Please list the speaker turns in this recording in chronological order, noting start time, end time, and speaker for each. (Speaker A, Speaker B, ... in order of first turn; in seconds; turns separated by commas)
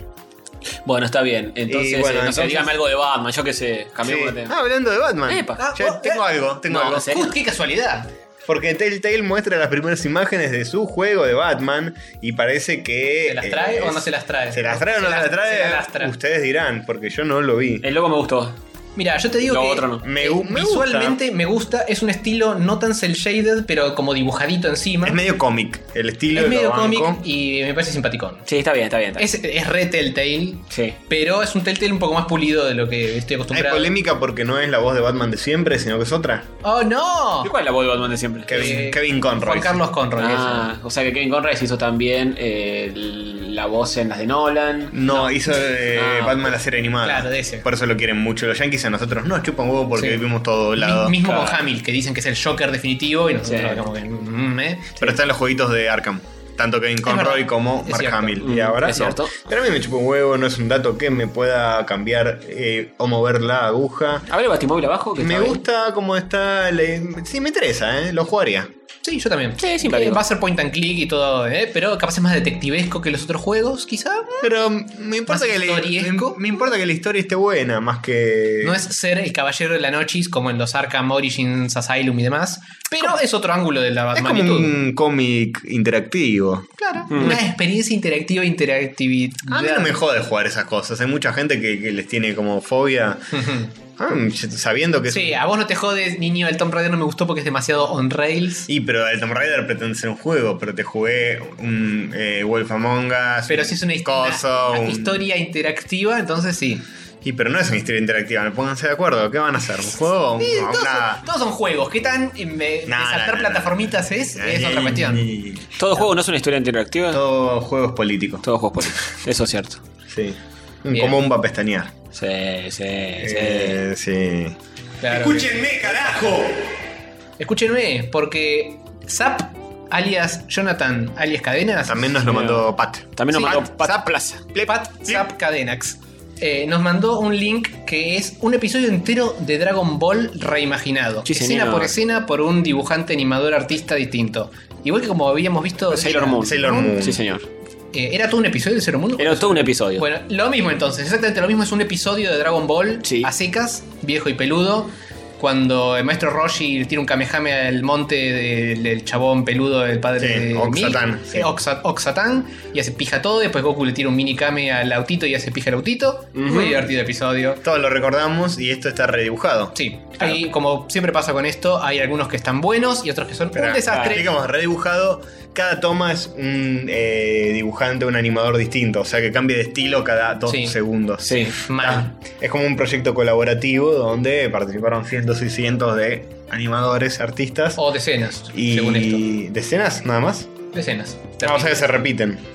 Speaker A: 0.8-4.5, Speaker B: 1.7-2.7, Speaker B: 4.0-7.2, Speaker A: 5.3-5.6, Speaker C: 5.6-6.2, Speaker A: 6.7-7.3, Speaker C: 7.0-8.1, Speaker B: 8.4-17.9, Speaker C: 13.2-16.1, Speaker A: 17.8-18.6, Speaker C: 18.9-25.2, Speaker A: 19.4-20.0, Speaker B: 20.0-21.2, Speaker B: 25.0-27.2, Speaker C: 26.3-28.4, Speaker A: 28.5-29.3, Speaker C: 29.2-34.0, Speaker A: 30.7-31.0, Speaker B: 33.5-36.5, Speaker C: 36.6-37.5, Speaker A: 37.4-38.8, Speaker B: 38.5-39.8, Speaker C: 38.5-40.7, Speaker A: 40.2-45.1, Speaker B: 44.9-51.2, Speaker A: 45.9-46.5, Speaker C: 47.0-47.6, Speaker C: 50.0-50.2, Speaker C: 50.8-55.0, Speaker A: 51.2-51.6, Speaker A: 53.4-53.9, Speaker B: 55.0-64.3, Speaker C: 57.0-58.4, Speaker A: 58.4-59.4, Speaker A: 64.3-65.6, Speaker B: 65.2-68.7, Speaker C: 69.0-74.5, Speaker A: 69.6-70.2, Speaker B: 74.4-78.8, Speaker C: 75.2-76.4, Speaker C: 78.6-84.7, Speaker B: 84.1-87.3, Speaker C: 86.8-90.0, Speaker A: 87.1-87.4, Speaker B: 89.5-93.4, Speaker C: 93.3-93.7, Speaker B: 94.0-95.4, Speaker C: 95.1-98.7, Speaker B: 98.7-105.2, Speaker C: 103.5-106.8, Speaker B: 107.2-111.2, Speaker C: 110.4-115.2, Speaker B: 112.8-115.8, Speaker A: 115.8-117.2, Speaker B: 117.1-118.5, Speaker A: 118.4-119.8, Speaker B: 120.1-121.9, Speaker C: 120.9-121.2, Speaker A: 122.1-123.8, Speaker B: 123.2-124.5, Speaker C: 125.0-125.5, Speaker B: 125.1-126.7, Speaker C: 127.4-132.2, Speaker B: 131.8-135.2, Speaker A: 132.2-134.5, Speaker C: 133.3-133.6, Speaker C: 134.6-147.0, Speaker A: 141.3-141.9, Speaker A: 145.9-147.5, Speaker B: 146.4-147.2, Speaker C: 147.9-167.6, Speaker A: 149.2-150.1, Speaker A: 153.0-153.3, Speaker B: 160.2-161.5, Speaker A: 166.3-166.8, Speaker B: 167.6-169.8, Speaker C: 169.7-174.2, Speaker B: 173.5-187.8, Speaker A: 173.9-174.2, Speaker C: 180.5-180.8, Speaker A: 181.2-181.6, Speaker C: 181.6-182.1, Speaker C: 187.8-189.2, Speaker B: 188.5-190.5, Speaker C: 190.7-191.8, Speaker B: 191.4-192.4